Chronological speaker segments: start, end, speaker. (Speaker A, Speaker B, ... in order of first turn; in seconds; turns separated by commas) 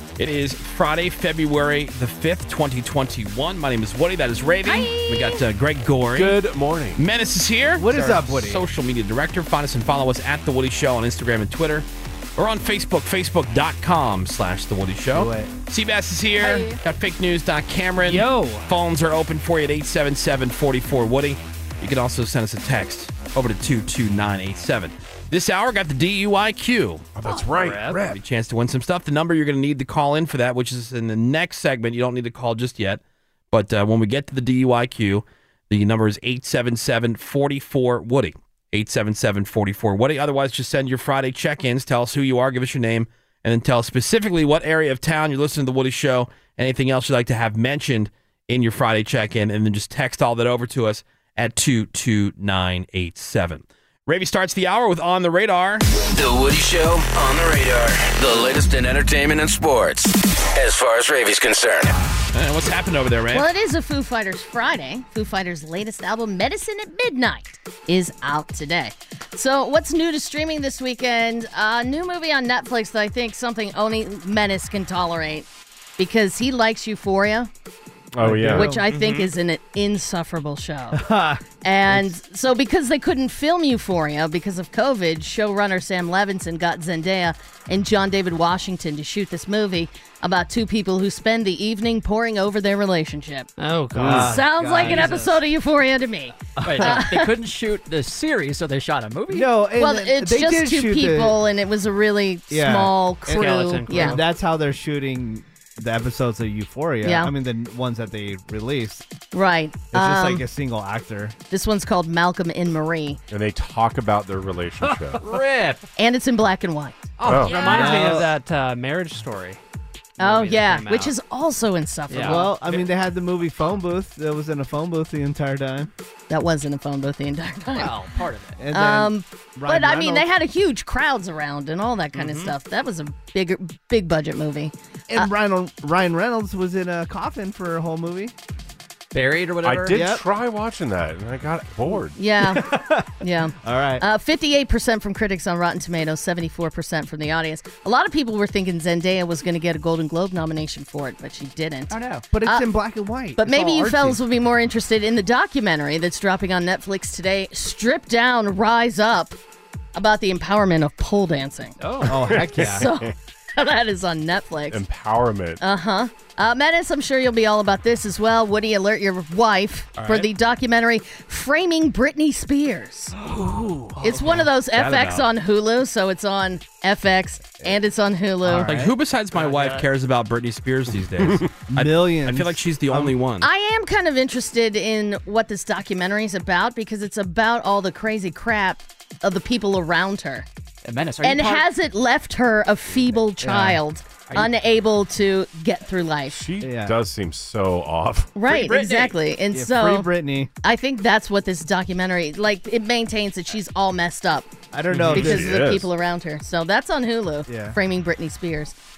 Speaker A: 0.2-6.4, Speaker B: 4.7-5.4, Speaker C: 6.1-7.0, Speaker A: 7.0-27.1, Speaker D: 7.8-8.7, Speaker D: 15.1-15.5, Speaker B: 16.4-16.8, Speaker E: 18.0-18.7, Speaker C: 27.1-28.2, Speaker E: 27.3-28.0, Speaker A: 28.1-55.9, Speaker F: 56.1-62.0, Speaker A: 62.3-63.5, Speaker B: 63.3-75.5, Speaker B: 76.0-77.5, Speaker C: 78.1-78.8, Speaker D: 78.2-78.9, Speaker B: 78.5-81.0, Speaker E: 78.9-79.3, Speaker D: 80.9-82.1, Speaker B: 81.6-93.5, Speaker E: 93.6-95.4, Speaker D: 94.0-95.1, Speaker B: 94.1-97.3, Speaker D: 96.6-97.1, Speaker G: 96.6-99.5, Speaker D: 99.3-101.4, Speaker B: 99.8-104.2, Speaker D: 102.5-109.0, Speaker E: 103.3-104.2, Speaker B: 107.0-107.3, Speaker B: 109.3-110.5, Speaker D: 109.9-111.4, Speaker B: 111.5-113.2, Speaker C: 113.3-115.2, Speaker G: 115.2-115.8, Speaker B: 116.0-117.1, Speaker G: 117.2-118.1, Speaker E: 117.2-119.6, Speaker C: 117.2-117.7, Speaker D: 117.6-118.3, Speaker B: 120.2-122.5, Speaker E: 120.2-121.1, Speaker E: 122.1-122.6, Speaker D: 122.2-125.9, Speaker B: 126.3-127.9, Speaker G: 127.7-128.6, Speaker D: 128.6-130.3, Speaker B: 128.7-135.3, Speaker E: 132.1-132.5, Speaker D: 135.1-138.3, Speaker G: 139.1-140.1, Speaker C: 139.6-142.2, Speaker D: 139.9-140.2, Speaker B: 142.2-152.7, Speaker D: 142.4-143.1, Speaker D: 143.6-144.0, Speaker G: 151.9-152.2, Speaker D: 152.3-154.2, Speaker B: 153.4-159.4, Speaker B: 159.9-161.8, Speaker E: 161.8-162.8, Speaker D: 162.1-162.9, Speaker C: 162.1-163.1, Speaker B: 162.7-164.8, Speaker C: 164.7-165.6, Speaker B: 165.6-173.2, Speaker E: 170.0-170.3, Speaker E: 174.0-174.5, Speaker B: 174.0-178.8, Speaker A: 174.7-175.3, Speaker D: 178.4-178.9, Speaker A: 178.6-183.5, Speaker E: 179.3-179.9, Speaker D: 181.7-183.2, Speaker B: 183.4-190.5, Speaker G: 190.8-191.7, Speaker B: 191.2-196.5, Speaker D: 193.4-193.8, Speaker G: 194.3-194.5, Speaker C: 196.3-198.3, Speaker D: 196.6-197.0, Speaker B: 198.3-200.1, Speaker G: 198.5-199.2, Speaker D: 199.5-200.5, Speaker B: 200.6-204.5, Speaker D: 204.7-205.6, Speaker C: 205.1-205.9, Speaker B: 205.1-208.8, Speaker D: 207.5-207.8